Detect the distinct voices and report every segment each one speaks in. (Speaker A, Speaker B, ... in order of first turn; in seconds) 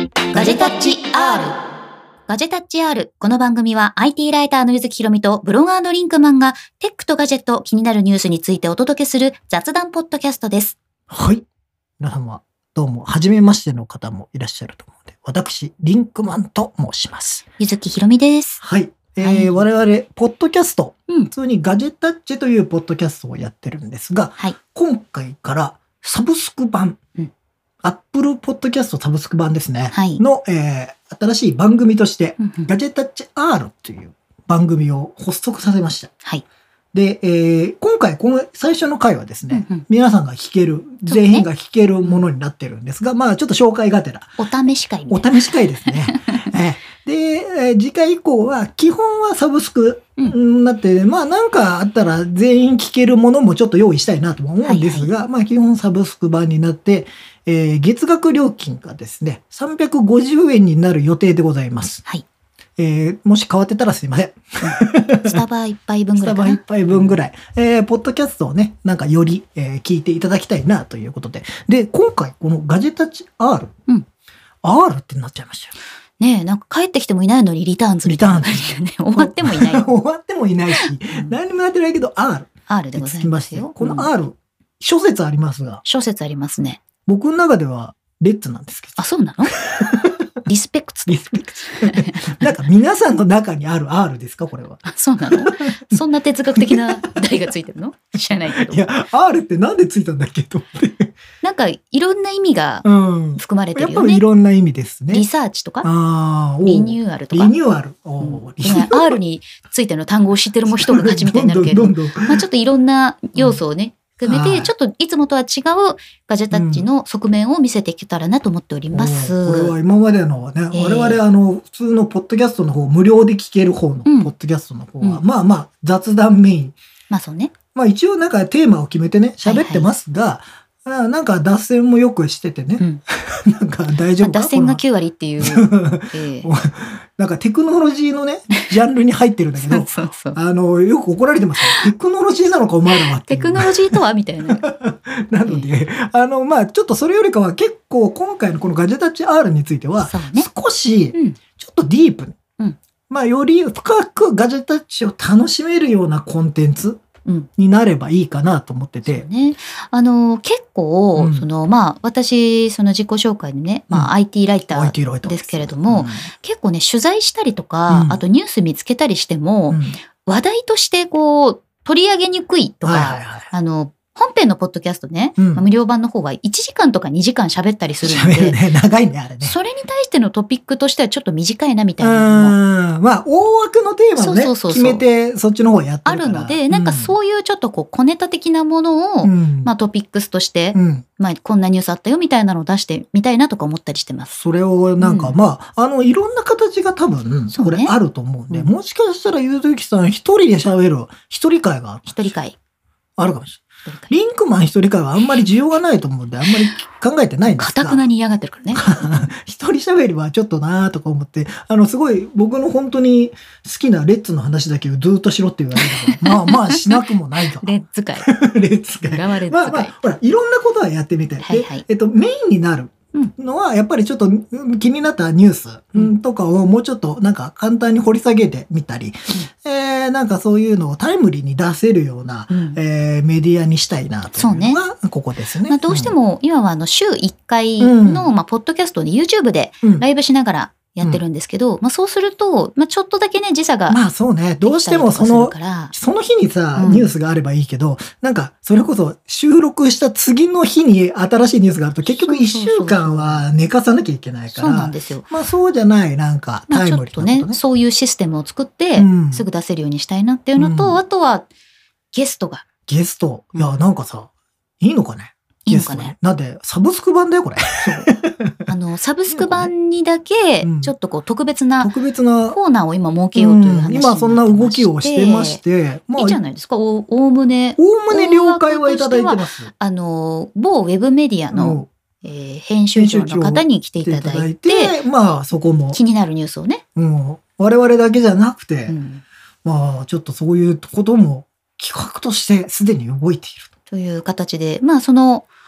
Speaker A: 0.3-1.0, 11.1-11.4, 12.0-17.4, 18.6-27.0, 27.8-36.1, 36.9-44.4, 45.1-62.0, 62.8-65.4, 66.2-73.7, 74.6-75.8, 78.0-85.8, 87.1-90.2, 91.1-96.0, 96.5-97.5, 98.3-101.1, 102.8-105.3, 105.8-109.2, 110.7-112.4, 114.3-114.7, 116.5-116.9, 118.9-126.8, 127.8-134.8, 135.4-152.4, 153.1-157.0, 157.6-159.3, 161.2-161.5, 164.7-166.3, 167.9-168.2, 169.7-170.0, 172.8-173.5, 175.4-175.7, 178.0-179.6, 182.0-187.2, 189.2-189.7, 190.7-191.1, 194.3-202.3, 203.2-208.0, 208.7-236.1, 237.8-238.3, 243.9-257.6, 259.0-259.5, 260.6-261.0, 262.9-268.7, 269.3-269.7, 270.6-270.9, 271.8-272.6, 273.4-276.4, 277.8-279.7, 281.5-281.9, 282.9-286.0, 287.0-288.9, 289.6-293.7
Speaker B: 0.3-1.6, 2.3-10.8, 17.6-18.6, 19.2-19.7, 29.9-30.2, 32.4-32.7, 39.5-39.9, 41.1-41.5, 44.4-46.5, 54.6-55.1, 64.6-67.2, 76.2-79.9, 80.7-81.4, 82.7-84.1, 85.8-86.8, 89.0-89.5, 90.5-91.2, 91.8-92.5, 94.9-98.9, 101.4-102.8, 103.4-104.2, 105.1-105.9, 106.6-107.5, 108.2-119.7, 120.7-121.2, 124.1-124.3, 127.1-127.5, 129.4-129.9, 134.2-136.5, 139.6-140.4, 141.6-141.9, 142.9-144.7, 145.4-145.7, 150.0-150.5, 159.1-178.6, 179.4-182.6, 184.2-185.1, 186.1-194.3, 195.0-195.4, 197.5-197.9, 202.1-202.6, 203.8-204.1, 206.4-206.8, 207.5-208.8, 215.8-217.1, 217.6-218.3, 219.0-219.9, 221.4-221.8, 232.5-232.8, 234.4-234.8, 235.7-244.0, 244.6-245.9, 246.8-247.1, 252.1-253.4, 254.5-255.3, 256.7-261.5, 262.1-262.6, 263.6-263.8, 265.7-266.1, 267.8-268.1, 268.7-271.9, 272.5-275.6, 276.2-285.0, 285.9-286.8, 288.9-289.2, 293.9-295.5